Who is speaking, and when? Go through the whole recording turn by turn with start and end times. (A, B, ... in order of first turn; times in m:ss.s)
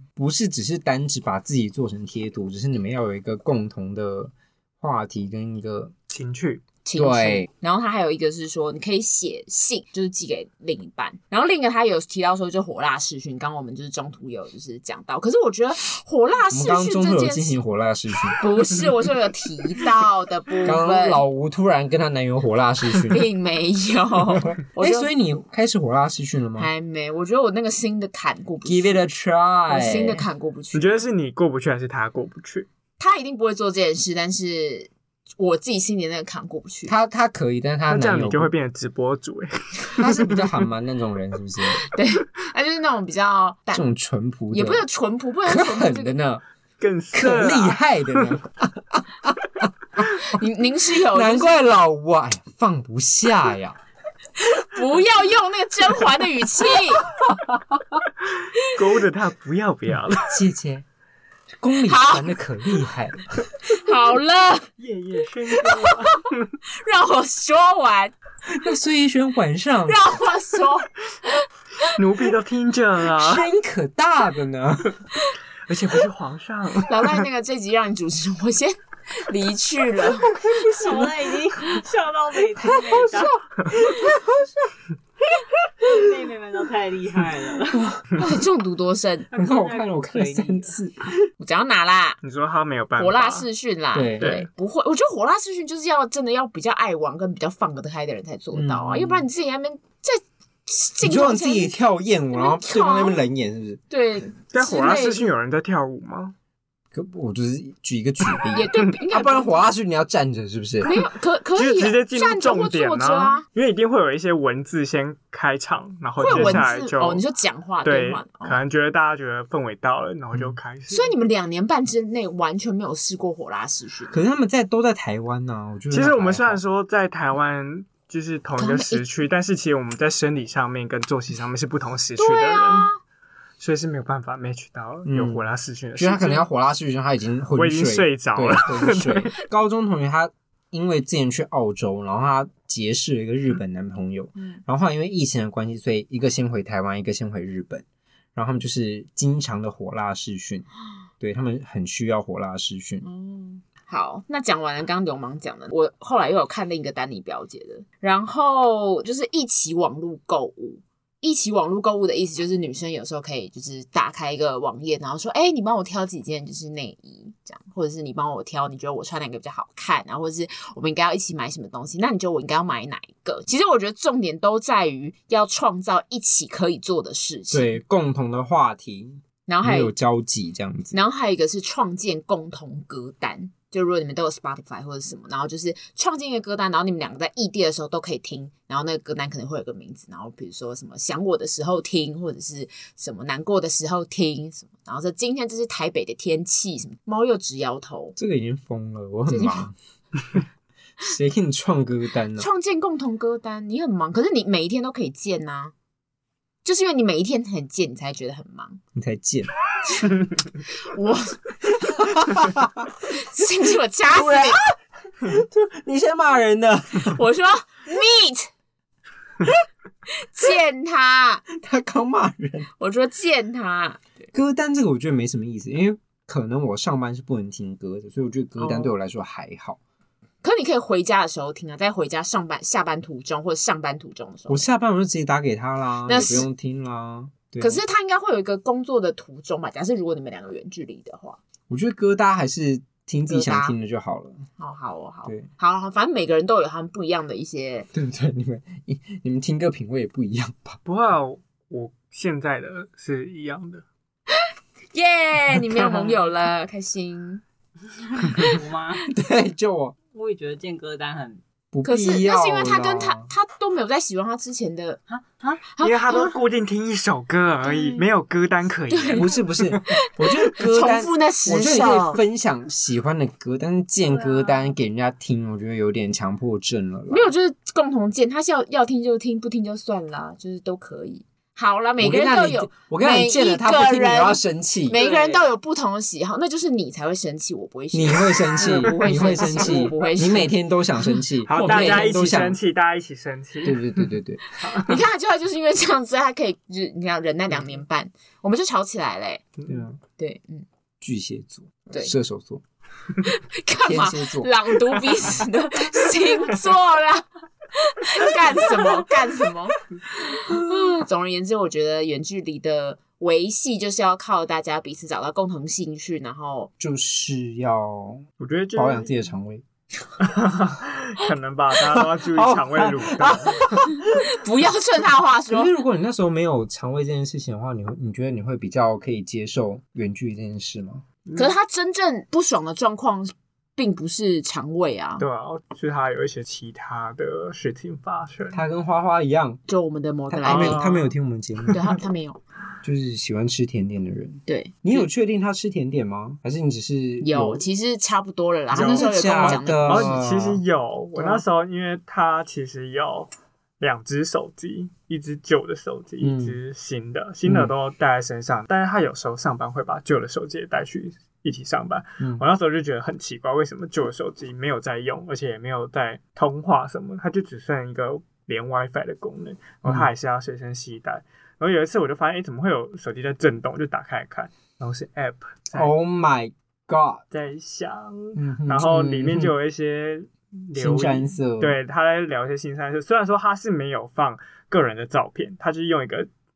0:00.2-0:05.9 A
0:06.1-0:06.6 B
0:06.8-0:17.6 C
0:07.0-0:07.5 A
0:16.5-0:18.8 A
0:18.4-0:21.2 C
0:20.6-0:23.3 A
0:23.1-0:25.1 C
0:24.4-0:26.7 A
0:26.6-0:29.0 C
0:28.6-0:30.2 A
0:29.7-0:30.9 C
0:30.7-0:32.7 B
0:33.0-0:36.9 C
0:36.9-0:38.5 A
0:37.9-0:40.6 B
0:40.0-0:41.9 A
0:41.9-0:43.9 C
0:43.7-0:44.8 A
0:44.5-0:46.2 C
0:45.4-0:46.4 A
0:46.8-0:48.3 B
0:47.1-0:50.0 A
0:50.3-0:51.6 C
0:51.1-0:53.8 A
0:54.4-0:57.0 C
0:57.2-0:58.0 A
0:58.4-1:00.4 B
1:00.2-1:00.8 A
1:01.6-1:03.2 A
1:01.8-1:02.3 C
1:03.6-1:04.7 C
1:04.8-1:06.5 B
1:06.7-1:08.1 C
1:08.4-1:10.0 A
1:09.9-1:10.9 C
1:11.8-1:13.5 B
1:13.2-1:15.0 A
1:15.7-1:17.1 B
1:16.8-1:20.4 C
1:20.4-1:21.1 A
1:20.5-1:23.8 D
1:22.6-1:24.5 A
1:25.8-1:28.0 D
1:28.2-1:29.3 C
1:29.3-1:30.8 D
1:29.3-1:31.3 A
1:31.4-1:32.2 C
1:32.2-1:33.5 B
1:33.0-1:41.8 C
1:33.9-1:34.3 A
1:34.2-1:34.5 B
1:38.5-1:39.3 A
1:41.0-1:43.8 A
1:42.3-1:43.2 C
1:43.9-1:45.2 C
1:44.5-1:46.3 B
1:46.9-1:50.9 A
1:48.5-1:49.6 C
1:50.8-1:53.4 C
1:51.6-1:57.2 B
1:56.2-1:58.6 C
1:56.3-1:56.6 A
1:57.8-2:01.1 B
2:00.9-2:04.2 C
2:04.1-2:06.6 A
2:05.9-2:12.9 B
2:08.6-2:09.0 C
2:12.2-2:13.0 C
2:13.6-2:16.4 B
2:15.0-2:15.4 A
2:16.0-2:30.7 A
2:17.5-2:19.3 B
2:31.2-2:33.0 A
2:33.0-2:57.8 C
2:57.5-3:00.9 A
2:59.5-2:59.9 C
3:00.9-3:18.2 C
3:18.2-3:19.7 A
3:19.3-3:19.7 C
3:21.0-3:22.5 A
3:22.4-3:25.7 C
3:26.6-3:28.8 C
3:28.9-3:29.5 A
3:30.8-3:31.4 C
3:31.8-3:32.9 A
3:33.1-3:34.6 C
3:34.1-3:37.2 A
3:37.1-3:38.5 C
3:40.2-3:41.4 C
3:41.5-3:42.7 A
3:42.8-3:44.2 C
3:44.3-3:49.8 A
3:48.6-3:48.9 C
3:50.4-3:54.6 C
3:54.5-3:57.8 A
3:56.0-3:56.5 C
3:57.6-4:01.4 C
4:01.7-4:04.5 A
4:03.3-4:03.7 C
4:04.6-4:07.9 C
4:07.9-4:10.8 A
4:10.8-4:13.8 B
4:14.9-4:17.4 C
4:18.3-4:19.1 D
4:19.1-4:20.0 A
4:20.1-4:21.4 D
4:21.7-4:23.3 A
4:21.8-4:25.0 C
4:25.1-4:25.6 D
4:25.6-4:26.4 C
4:25.8-4:29.8 B
4:28.9-4:32.2 C
4:29.1-4:37.3 A
4:34.1-4:34.6 D
4:37.1-4:51.8 C
4:42.0-4:45.0 A
4:44.9-4:45.5 B
4:47.9-4:52.6 A
4:48.8-4:49.7 B
4:51.5-4:54.0 B
4:53.6-4:54.6 A
4:54.6-4:55.0 B
4:54.8-4:59.5 C
4:59.7-5:00.0 A
5:00.2-5:00.6 C
5:01.0-5:02.6 A
5:03.2-5:16.7 C
5:03.8-5:04.5 A
5:16.8-5:19.6 A
5:18.4-5:19.2 B
5:20.2-5:23.8 B
5:22.3-5:24.3 A
5:24.1-5:25.7 C
5:25.5-5:31.0 A
5:31.2-5:31.5 B
5:31.3-5:35.2 C
5:35.2-5:38.6 B
5:38.5-5:39.6 A
5:39.7-5:40.8 C
5:40.3-5:41.9 A
5:40.5-5:41.8 B
5:41.7-5:42.4 C
5:42.8-5:47.6 A
5:44.5-5:45.0 C
5:47.2-5:50.2 C
5:48.7-5:50.6 A
5:48.7-6:15.9 B
5:56.2-5:56.6 A
5:57.4-5:57.7 A
6:09.8-6:10.1 A
6:15.7-6:17.2 A
6:17.3-6:26.3 B
6:18.3-6:19.5 A
6:20.8-6:21.8 A